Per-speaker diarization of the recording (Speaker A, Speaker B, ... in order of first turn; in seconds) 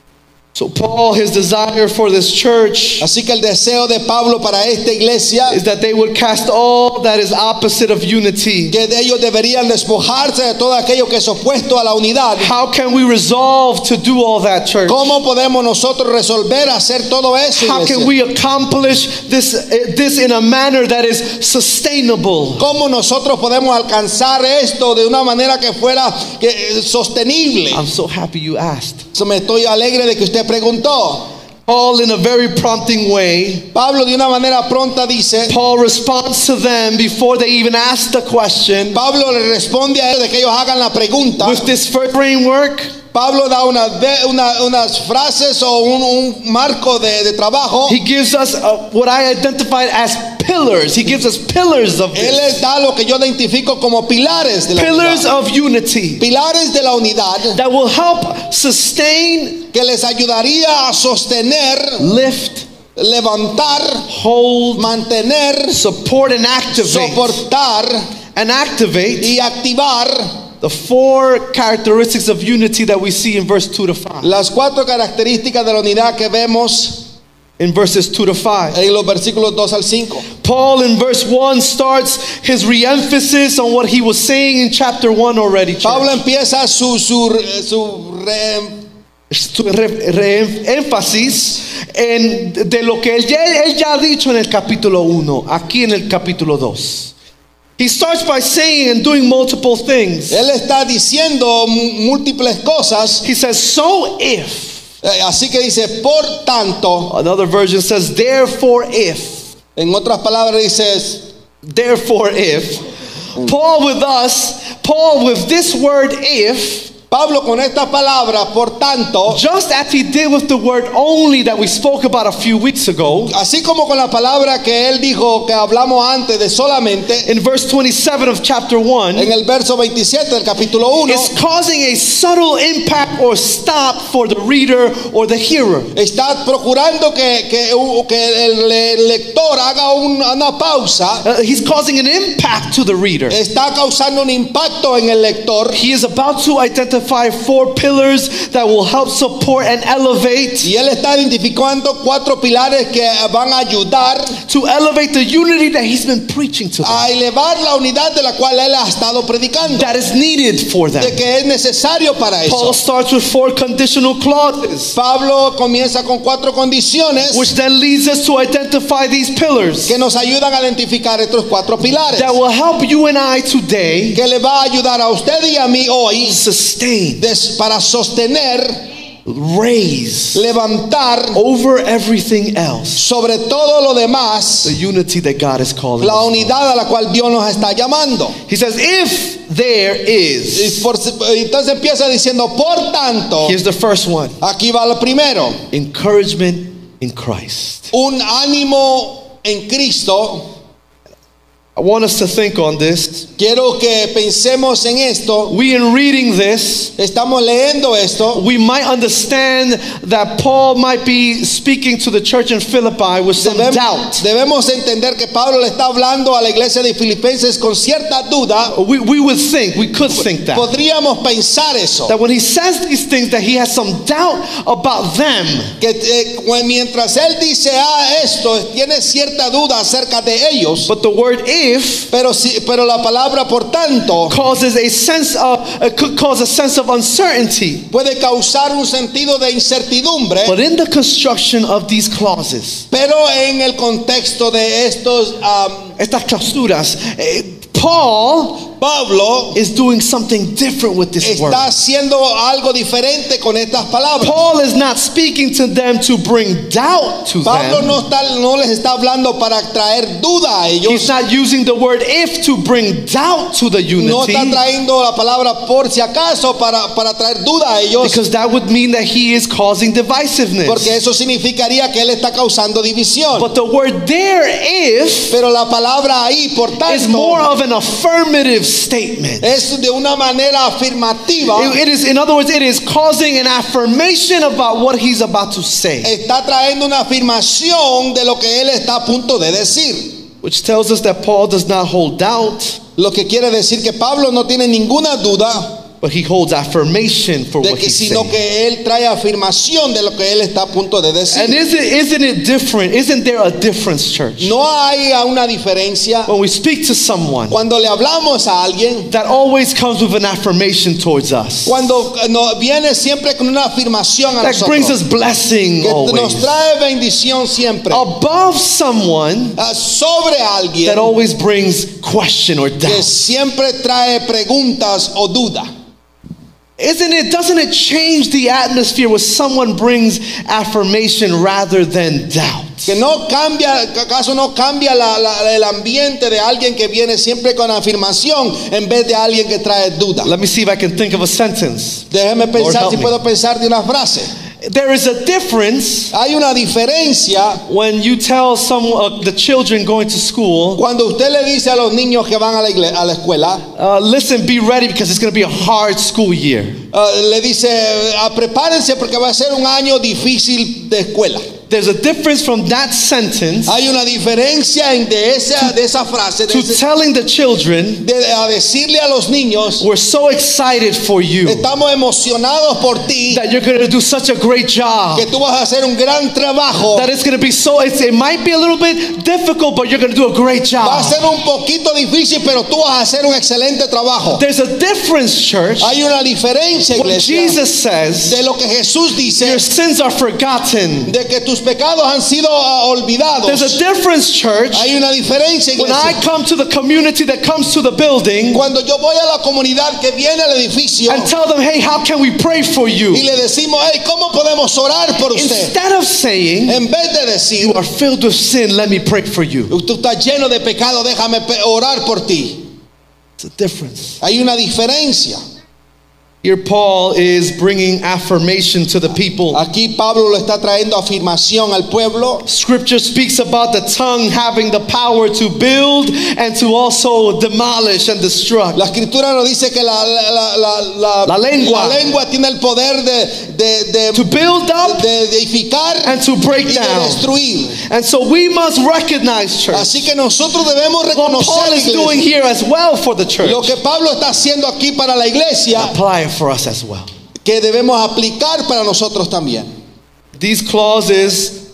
Speaker A: 0.6-3.1, 5.5-8.7, 12.4-15.1, 17.6-22.6, 27.7-29.0, 31.7-33.7, 35.5-39.0, 41.4-42.9, 47.9-52.5, 54.8-56.2, 57.5-59.7, 62.0-62.7, 64.1-64.9, 65.7-67.4, 68.3-69.3, 70.6-74.3, 77.6-78.8, 80.4-86.2, 89.3-97.1, 97.8-100.4, 103.2-104.8, 107.1-109.5, 111.6-116.9, 119.3-123.3, 127.3-129.3, 131.1-135.9, 141.2-143.4, 145.7-150.7, 154.4-157.0, 159.7-161.2, 162.5-165.0, 167.3-169.9, 172.1-174.2, 176.3-177.2, 179.3-180.4, 181.3-183.0, 184.6-186.6, 188.5-190.8, 193.4-194.4, 195.7-197.9, 201.8-203.3, 205.5-206.9, 208.3-214.2, 218.7-220.7, 222.1-225.7, 230.9-232.1, 234.3-237.9, 240.4-242.8, 246.0-248.7, 249.5-251.7, 254.2-258.0, 260.9-264.6, 268.0-270.9, 273.3-275.4, 276.9-279.5, 281.5-286.1, 290.4-292.8, 296.0-298.4, 301.3-304.5, 306.3-307.6, 309.1-311.9, 314.4-316.5, 317.9-319.6, 320.9-323.1, 326.8-333.0, 340.2-343.1, 344.6-346.1, 347.7-350.8, 353.8-356.8, 361.7-363.7, 366.5-368.1, 369.8-371.6, 373.3-375.3, 376.9-381.2, 384.3-385.9, 387.0-388.4, 389.4-391.1, 393.4-394.9, 395.8-398.6, 401.1-403.3, 405.3-406.8, 407.6-409.7, 413.4-414.2, 416.4-419.6, 422.4-428.8, 431.3-432.0, 434.1-435.1, 436.1-437.2, 437.8-439.9, 441.1-443.7, 445.7-447.1, 450.4-451.6
Speaker B: 3.0-5.6, 8.7-12.5, 14.9-18.1, 22.6-27.8, 29.1-31.3, 33.7-35.5, 38.9-41.7, 43.1-48.0, 52.1-55.3, 56.2-57.6, 59.7-62.0, 63.0-64.1, 64.8-65.8, 66.7-68.0, 69.2-70.3, 74.2-77.1, 78.7-80.3, 85.8-88.8, 100.3-103.2, 105.0-107.1, 109.8-111.2, 117.1-119.4, 123.3-127.3, 129.2-131.3, 135.9-141.3, 143.3-145.8, 150.6-154.4, 156.8-159.9, 161.0-162.8, 164.9-167.5, 169.9-172.4, 174.2-176.4, 177.2-178.8, 180.3-181.4, 183.0-184.8, 186.0-188.4, 190.5-193.6, 194.4-195.6, 197.9-200.5, 203.4-205.5, 207.0-208.4, 213.4-218.8, 220.5-222.2, 225.8-230.9, 232.1-234.4, 237.9-240.6, 242.9-245.9, 248.8-249.6, 251.2-254.3, 257.4-261.1, 264.0-268.2, 270.7-273.5, 275.3-277.5, 279.4-281.8, 286.0-290.2, 293.0-295.8, 297.6-301.6, 304.4-306.3, 307.5-309.1, 311.7-315.0, 315.8-318.1, 319.6-321.1, 322.9-325.7, 332.9-340.3, 342.1-344.3, 346.1-347.6, 350.8-353.6, 356.9-361.5, 363.7-366.8, 368.0-369.9, 371.4-373.4, 375.1-377.1, 380.8-384.4, 385.8-387.6, 388.2-389.6, 391.1-393.8, 394.7-396.2, 398.5-401.3, 403.1-405.7, 406.7-407.8, 409.7-412.6, 414.2-415.4, 419.5-422.4, 428.8-434.3, 434.8-437.8, 439.7-442.2, 443.4-445.9, 447.4-449.7